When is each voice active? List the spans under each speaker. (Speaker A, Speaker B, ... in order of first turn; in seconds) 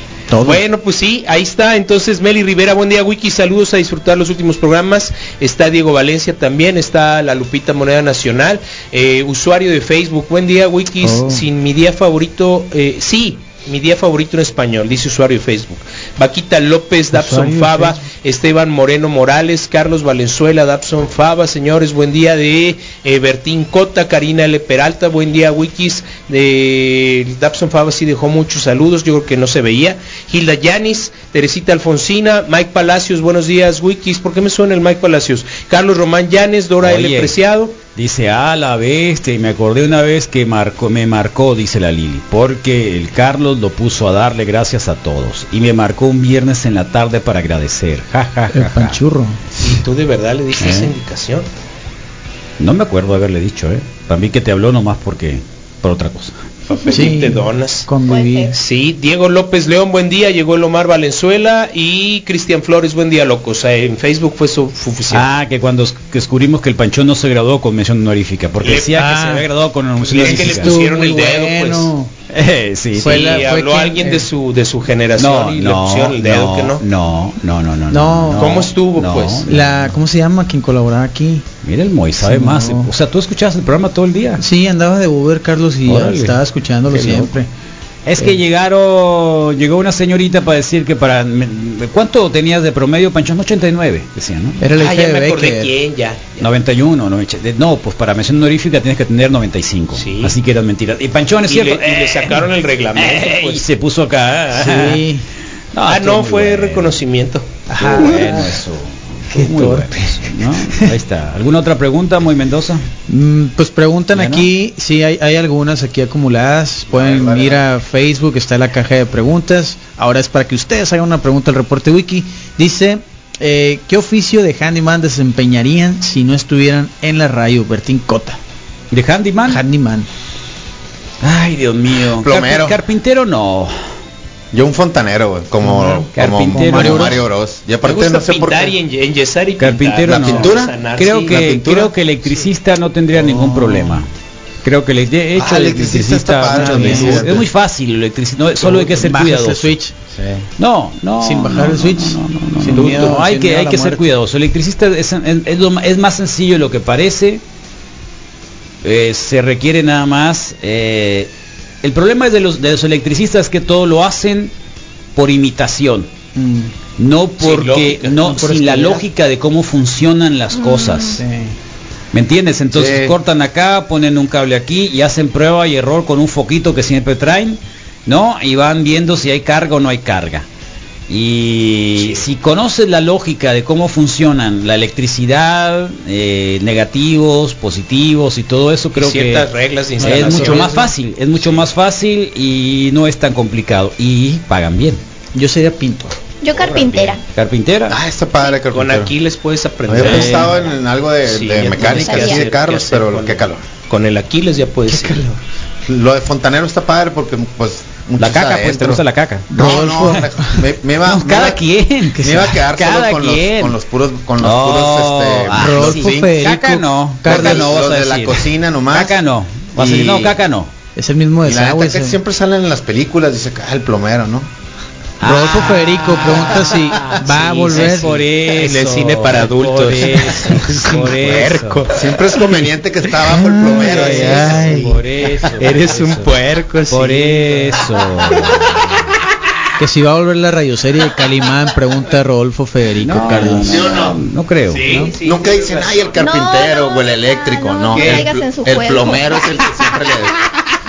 Speaker A: 0.3-0.6, 11.0-11.4, 17.1-18.0, 48.5-49.4, 50.6-50.8, 56.9-58.5, 68.9-69.5, 70.1-72.1, 73.0-74.2, 77.9-78.6, 79.5-81.4, 82.2-82.9, 84.4-87.5, 94.6-95.7, 104.5-105.2, 107.7-108.5, 109.3-110.9, 113.1-128.4, 129.4-130.1, 135.6-137.2, 143.1-144.0, 146.5-147.3, 148.6-149.9, 151.2-154.0, 166.3-166.7, 168.2-169.0, 171.1-171.5, 190.0-190.9, 195.3-196.2, 204.9-205.4, 209.5-210.6, 212.2-212.5, 215.6-217.5, 220.9-222.2, 225.2-228.1, 233.3-234.9, 239.8-243.8
Speaker B: 0.4-37.7, 49.6-51.5, 56.7-57.9, 58.5-65.3, 68.6-69.0, 70.1-71.9, 73.0-76.8, 78.4-79.4, 94.8-96.4, 100.0-100.3, 101.5-103.6, 105.9-108.3, 137.8-141.3, 167.4-168.2, 188.9-190.8, 198.7-200.7, 201.3-205.2, 228.5-231.9, 235.6-237.7, 244.7-246.2, 247.9-248.3
Speaker C: 36.8-37.3, 37.9-49.0, 52.6-56.3, 65.1-70.8, 72.3-73.5, 75.2-79.9, 81.6-84.4, 85.8-86.4, 86.9-87.3, 88.0-94.6, 96.4-105.0, 105.7-107.0, 107.8-112.8, 114.1-114.5, 128.9-129.6, 131.2-133.7, 136.2-137.2, 139.6-144.1, 144.6-149.7, 150.6-157.4, 158.8-161.3, 161.8-164.5, 165.1-166.1, 167.0-171.2, 172.1-180.4, 181.1-189.5, 190.0-195.0, 197.2-198.0, 200.0-200.6, 208.2-209.5, 211.0-213.8, 214.4-220.7, 225.2-231.8, 233.6-236.3, 236.9-238.5, 243.0-244.8
Speaker D: 58.1-58.5, 170.5-171.2, 196.4-197.2, 202.0-202.5, 246.2-249.8
Speaker E: 116.9-117.6, 132.2-132.8, 134.5-138.7, 140.1-140.7, 141.3-141.9, 145.3-147.5, 150.1-150.4, 172.7-173.2, 196.5-197.1, 197.9-199.1, 199.9-203.6, 205.8-209.0, 209.5-211.6, 212.2-216.3, 217.2-219.2, 219.8-220.3, 221.4-224.5, 231.9-235.0, 243.5-244.2, 245.2-250.3